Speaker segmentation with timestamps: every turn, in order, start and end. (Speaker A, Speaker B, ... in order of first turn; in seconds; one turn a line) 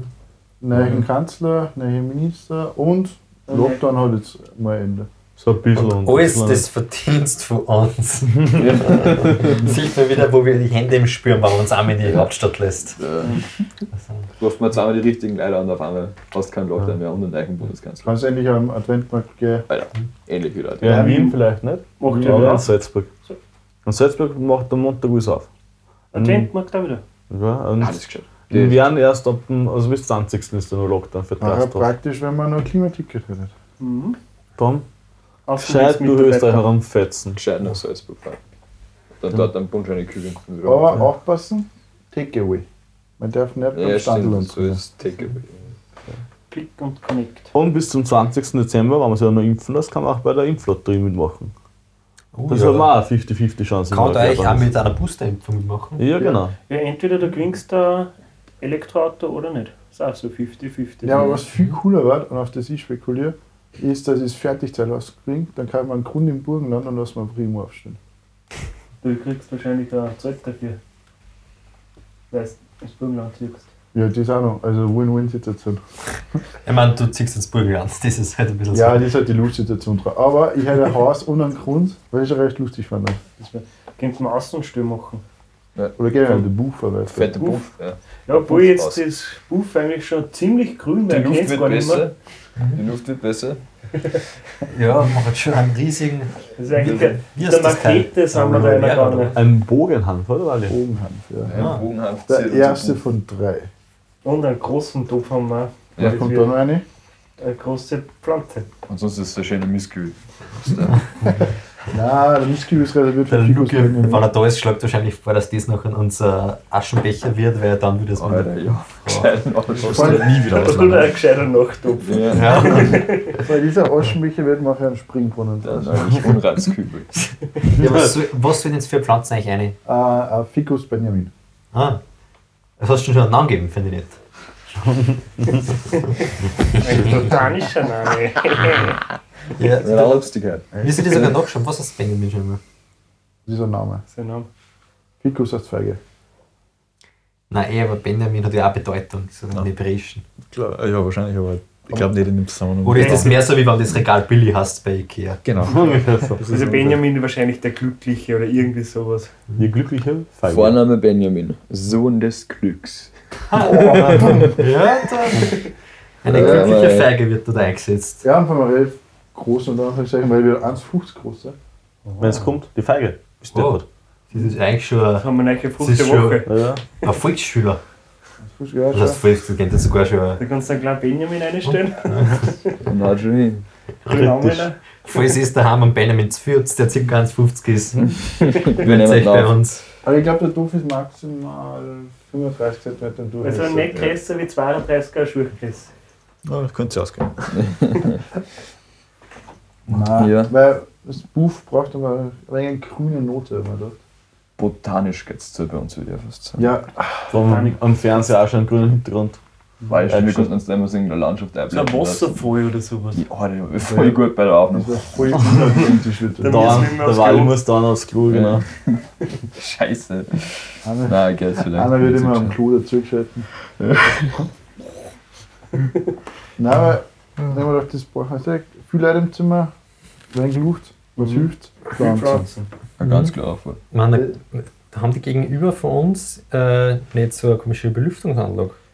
Speaker A: 0.6-5.1
Speaker B: 0.7-1.0
Speaker C: 3.5-3.8
Speaker B: 5.4-6.6
Speaker D: 5.7-13.0
Speaker E: 8.6-9.6
Speaker E: 12.0-12.3
Speaker E: 13.0-13.5
Speaker E: 14.4-18.1
Speaker A: 18.0-19.6
Speaker E: 19.7-21.0
Speaker B: 20.8-23.1
Speaker A: 20.8-21.4
Speaker C: 20.9-21.4
Speaker C: 22.0-22.7
Speaker A: 22.0-22.6
Speaker B: 23.8-25.5
Speaker C: 26.1-27.0
Speaker B: 26.1-26.5
Speaker B: 27.3-31.9
Speaker E: 27.8-28.9
Speaker A: 31.4-33.5
Speaker C: 33.8-34.2
Speaker B: 34.6-34.9
Speaker C: 35.5-36.6
Speaker B: 35.6-37.4
Speaker E: 37.3-38.4
Speaker E: 39.2-41.1
Speaker A: 40.6-42.6
Speaker A: 43.2-44.8
Speaker E: 43.7-45.5
Speaker C: 46.5-47.5
Speaker B: 47.5-51.5
Speaker D: 52.3-52.9
Speaker B: 52.5-54.7
Speaker D: 53.9-56.0
Speaker B: 56.0-56.5
Speaker C: 56.2-61.4
Speaker A: 61.0-68.0
Speaker C: 69.0-70.8
Speaker C: 72.3-73.7
Speaker A: 73.9-75.8
Speaker D: 76.7-79.0
Speaker A: 78.7-83.2
Speaker C: 83.4-85.2
Speaker E: 85.7-86.4
Speaker A: 86.0-87.6
Speaker E: 87.1-89.0
Speaker C: 88.3-92.1
Speaker E: 91.1-92.1
Speaker E: 92.7-93.6
Speaker D: 94.7-96.5
Speaker C: 96.6-99.4
Speaker E: 96.8-97.2
Speaker D: 97.3-99.4
Speaker B: 99.3-100.8
Speaker A: 100.7-101.7
Speaker E: 101.4-103.0
Speaker D: 101.5-101.8
Speaker A: 102.3-103.7
Speaker C: 104.2-106.6
Speaker A: 106.0-106.8
Speaker C: 107.4-108.7
Speaker E: 108.9-111.0
Speaker A: 111.9-114.3
Speaker D: 113.3-119.3
Speaker E: 118.2-120.4
Speaker A: 119.8-120.5
Speaker F: 119.8-121.1
Speaker C: 120.5-123.4
Speaker E: 122.0-122.9
Speaker D: 122.3-123.0
Speaker A: 123.3-126.3
Speaker E: 125.6-127.2
Speaker D: 127.7-129.8
Speaker A: 129.8-131.3
Speaker D: 131.7-132.0
Speaker D: 132.8-134.2
Speaker B: 134.8-135.6
Speaker C: 136.7-139.0
Speaker D: 136.8-137.1
Speaker D: 139.6-140.2
Speaker E: 139.8-141.3
Speaker A: 140.7-141.3
Speaker D: 140.8-142.6
Speaker A: 143.4-144.0
Speaker C: 144.1-144.5
Speaker A: 145.2-146.0
Speaker D: 147.5-150.2
Speaker F: 150.4-153.4
Speaker D: 152.8-155.9
Speaker C: 152.9-153.4
Speaker F: 155.4-157.0
Speaker B: 155.7-156.4
Speaker C: 156.5-159.3
Speaker B: 159.6-160.8
Speaker E: 160.5-164.3
Speaker D: 163.5-165.7
Speaker B: 163.6-164.5
Speaker C: 165.2-165.6
Speaker D: 166.2-168.2
Speaker E: 166.2-167.1
Speaker A: 166.3-166.8
Speaker A: 168.2-171.6
Speaker C: 172.1-172.3
Speaker B: 172.2-173.8
Speaker D: 173.4-175.2
Speaker C: 175.2-176.5
Speaker D: 175.8-176.4
Speaker B: 176.4-176.8
Speaker D: 177.0-177.8
Speaker A: 178.4-179.2
Speaker D: 178.9-180.4
Speaker C: 180.4-182.8
Speaker D: 181.7-182.4
Speaker E: 182.8-183.6
Speaker C: 184.1-184.8
Speaker B: 184.1-184.7
Speaker D: 185.0-189.8
Speaker E: 188.4-189.5
Speaker A: 190.0-194.2
Speaker C: 193.4-195.9
Speaker F: 196.4-197.8
Speaker E: 197.6-198.2
Speaker A: 199.9-204.0
Speaker E: 200.2-200.5
Speaker E: 204.6-206.7
Speaker A: 206.6-207.3
Speaker B: 207.3-209.4
Speaker C: 207.4-207.8
Speaker E: 209.9-212.4
Speaker B: 210.1-210.5
Speaker C: 211.7-213.2
Speaker E: 213.1-215.8
Speaker A: 213.8-216.9
Speaker C: 216.4-217.6
Speaker B: 216.4-218.6
Speaker E: 218.2-219.0
Speaker E: 219.5-222.6
Speaker A: 220.8-223.5
Speaker E: 223.8-224.2
Speaker A: 226.6-229.7
Speaker A: 230.3-232.5
Speaker C: 231.2-232.7
Speaker E: 233.0-233.8
Speaker D: 233.0-233.3
Speaker D: 233.9-238.8